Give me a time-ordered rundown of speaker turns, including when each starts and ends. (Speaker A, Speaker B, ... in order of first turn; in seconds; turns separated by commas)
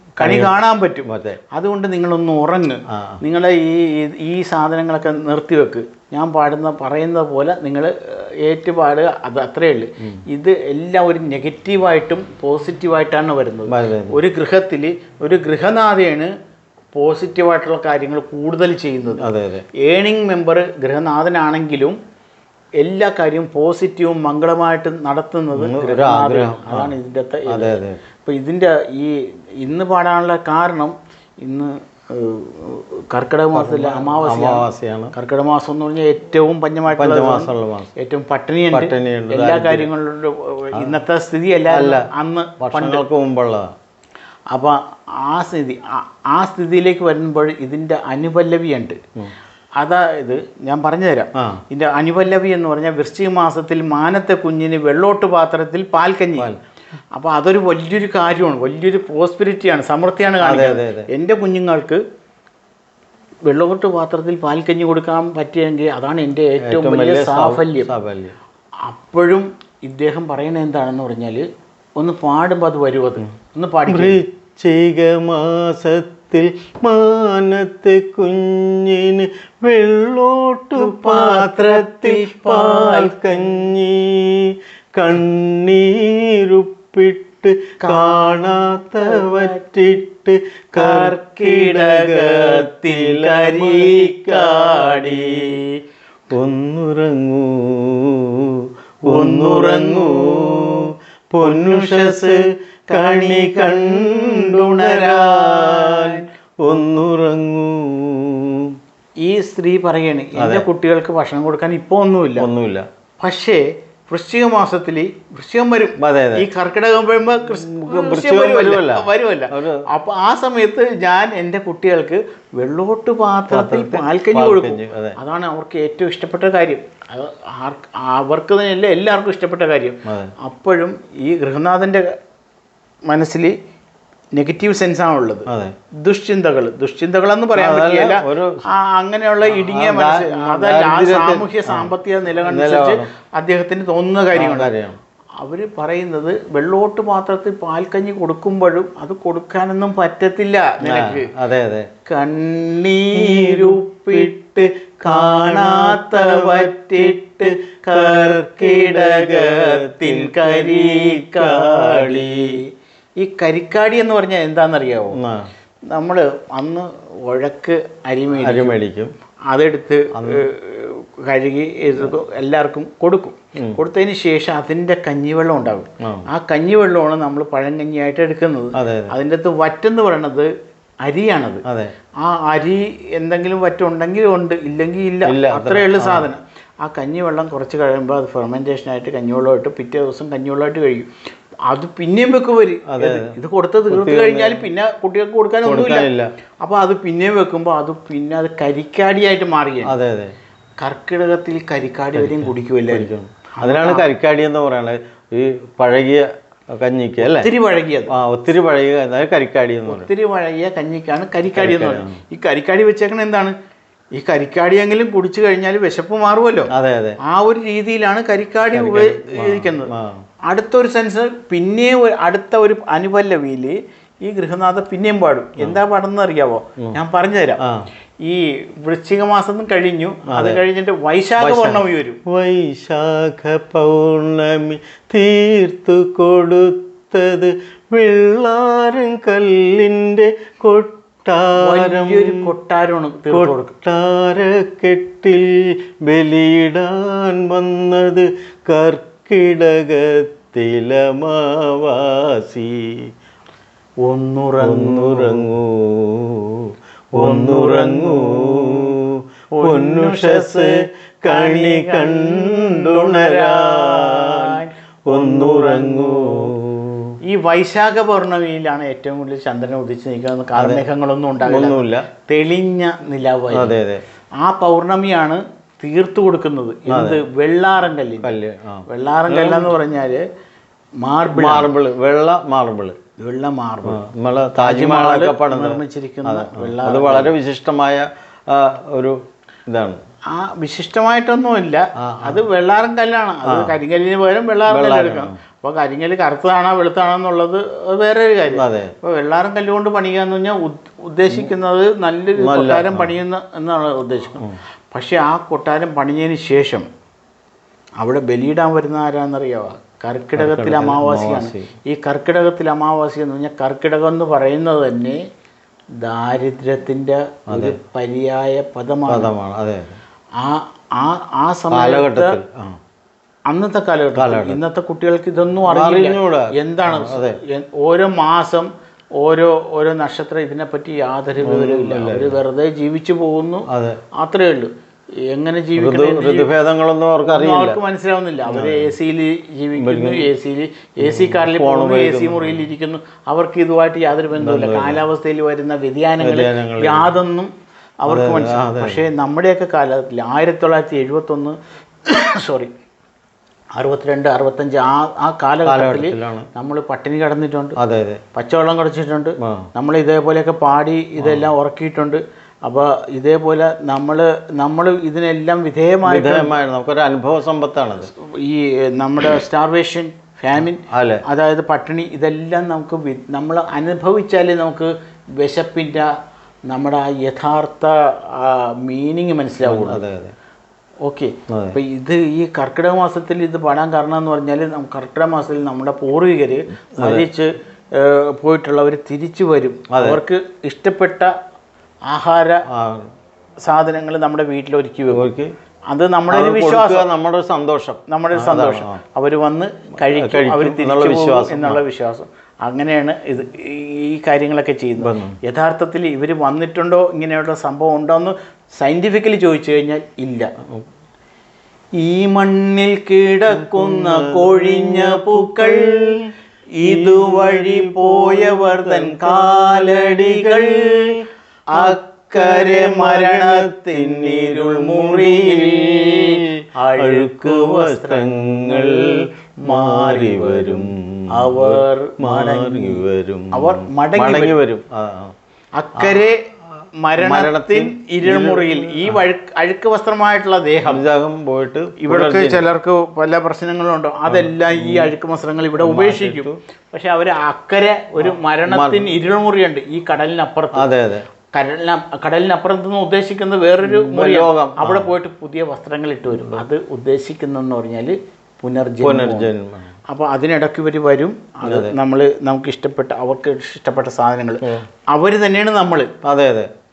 Speaker A: 0.2-16.3, Speaker B: 0.2-1.4, Speaker B: 2.9-3.2, Speaker B: 13.7-14.2, Speaker A: 16.9-19.2, Speaker B: 19.2-19.6, Speaker A: 19.8-22.0, Speaker A: 22.8-43.0, Speaker B: 25.6-26.9, Speaker B: 27.5-28.0, Speaker B: 33.5-35.1, Speaker B: 36.9-37.9, Speaker B: 38.7-39.9, Speaker B: 41.7-42.1, Speaker B: 42.6-43.7, Speaker A: 44.5-49.0, Speaker A: 49.8-56.5, Speaker A: 57.1-62.0, Speaker B: 60.4-61.1, Speaker A: 63.5-67.9, Speaker B: 66.6-68.3, Speaker A: 68.8-71.4, Speaker A: 72.0-74.2, Speaker B: 73.9-95.6, Speaker A: 80.8-83.6, Speaker A: 87.8-89.6, Speaker A: 90.8-95.7, Speaker B: 96.3-108.8, Speaker A: 99.0-100.8, Speaker A: 101.4-106.2, Speaker A: 109.2-112.5, Speaker B: 110.4-110.6, Speaker B: 112.4-112.8, Speaker A: 113.2-132.1, Speaker B: 116.0-116.5, Speaker B: 117.5-119.8, Speaker B: 123.5-125.2, Speaker B: 130.1-130.3, Speaker A: 133.1-133.5, Speaker A: 134.3-135.5, Speaker B: 135.5-135.7, Speaker A: 136.0-144.8, Speaker B: 137.5-138.6, Speaker B: 139.4-143.1, Speaker B: 144.3-145.0, Speaker A: 145.4-151.3, Speaker B: 150.8-151.9, Speaker A: 152.1-162.7, Speaker B: 153.2-154.3, Speaker B: 155.0-162.4, Speaker A: 163.2-165.2, Speaker B: 165.2-165.5, Speaker A: 165.9-168.8, Speaker B: 168.3-169.1, Speaker A: 169.5-180.5, Speaker B: 170.1-170.4, Speaker B: 178.8-179.1, Speaker A: 181.0-181.6, Speaker B: 181.7-181.9, Speaker A: 182.2-191.1, Speaker B: 185.2-186.3, Speaker A: 191.7-196.1, Speaker B: 192.9-193.3, Speaker B: 193.9-194.7, Speaker B: 195.6-196.3, Speaker A: 196.6-199.9, Speaker B: 199.8-200.3, Speaker A: 200.8-204.0, Speaker B: 202.1-207.5, Speaker A: 207.2-208.1, Speaker B: 208.1-210.1, Speaker A: 209.9-213.5, Speaker B: 211.5-212.2, Speaker A: 214.1-216.7, Speaker B: 216.7-217.2, Speaker A: 217.2-219.9, Speaker B: 218.7-220.2, Speaker A: 220.5-227.6, Speaker A: 228.2-232.2, Speaker B: 230.3-230.6, Speaker B: 231.4-242.4, Speaker A: 241.6-243.7, Speaker B: 243.3-245.5, Speaker B: 246.1-253.1, Speaker A: 254.0-255.4, Speaker B: 254.6-267.1, Speaker A: 257.2-258.8, Speaker A: 259.6-266.4, Speaker A: 267.2-273.7, Speaker B: 270.5-270.8, Speaker B: 271.4-272.1, Speaker B: 273.5-274.0, Speaker A: 274.4-278.3, Speaker B: 276.9-277.2, Speaker B: 278.2-279.8, Speaker A: 278.9-280.2, Speaker A: 281.0-281.7, Speaker B: 281.3-282.9, Speaker A: 283.2-284.0, Speaker B: 283.9-290.0, Speaker A: 284.6-287.3, Speaker A: 290.3-306.9, Speaker B: 292.0-292.4, Speaker B: 293.4-293.7, Speaker B: 294.7-295.4, Speaker B: 298.5-298.9, Speaker B: 302.4-303.1, Speaker A: 308.0-315.2, Speaker B: 310.4-311.7, Speaker A: 316.0-319.3, Speaker B: 317.5-317.8, Speaker B: 319.1-320.0, Speaker A: 320.4-322.4, Speaker B: 321.7-322.8, Speaker A: 323.5-333.6, Speaker B: 324.1-324.6, Speaker B: 325.6-327.4, Speaker B: 331.4-332.4, Speaker B: 333.7-334.0, Speaker A: 334.2-334.7, Speaker A: 335.3-336.5, Speaker B: 335.8-337.8, Speaker A: 337.2-347.5, Speaker B: 338.4-338.9, Speaker B: 339.8-340.3, Speaker B: 341.0-342.6, Speaker B: 344.4-345.0, Speaker B: 346.2-347.1, Speaker A: 348.0-352.7, Speaker B: 348.1-349.0, Speaker A: 353.7-357.8, Speaker B: 355.6-356.5, Speaker B: 357.8-358.2, Speaker A: 358.3-366.5, Speaker B: 359.4-359.7, Speaker B: 361.2-361.5, Speaker B: 366.1-368.1, Speaker A: 368.0-376.1, Speaker B: 370.9-371.2, Speaker A: 376.7-380.0, Speaker B: 379.6-380.3, Speaker A: 381.0-391.3, Speaker B: 381.5-381.8, Speaker B: 387.0-387.3, Speaker B: 389.9-390.2, Speaker A: 392.1-392.6, Speaker B: 392.7-393.1, Speaker A: 393.6-395.2, Speaker B: 395.1-395.5, Speaker A: 395.9-397.1, Speaker B: 396.3-399.0, Speaker A: 398.1-410.5, Speaker B: 400.0-401.8, Speaker B: 405.0-405.4, Speaker A: 412.0-416.2, Speaker B: 413.5-416.2, Speaker A: 416.8-421.2, Speaker B: 416.8-421.2, Speaker A: 421.7-434.6, Speaker B: 421.7-435.3, Speaker A: 435.8-436.4, Speaker B: 436.0-436.2, Speaker A: 437.0-441.0, Speaker B: 437.2-439.2, Speaker B: 440.9-442.6, Speaker A: 442.0-450.9, Speaker B: 444.3-445.1, Speaker B: 445.8-446.6, Speaker B: 448.2-449.2, Speaker B: 450.7-451.2, Speaker A: 451.5-459.5, Speaker B: 453.8-455.1, Speaker B: 456.3-456.6, Speaker B: 459.0-459.9, Speaker A: 460.1-466.1, Speaker B: 461.6-461.9, Speaker B: 466.2-466.7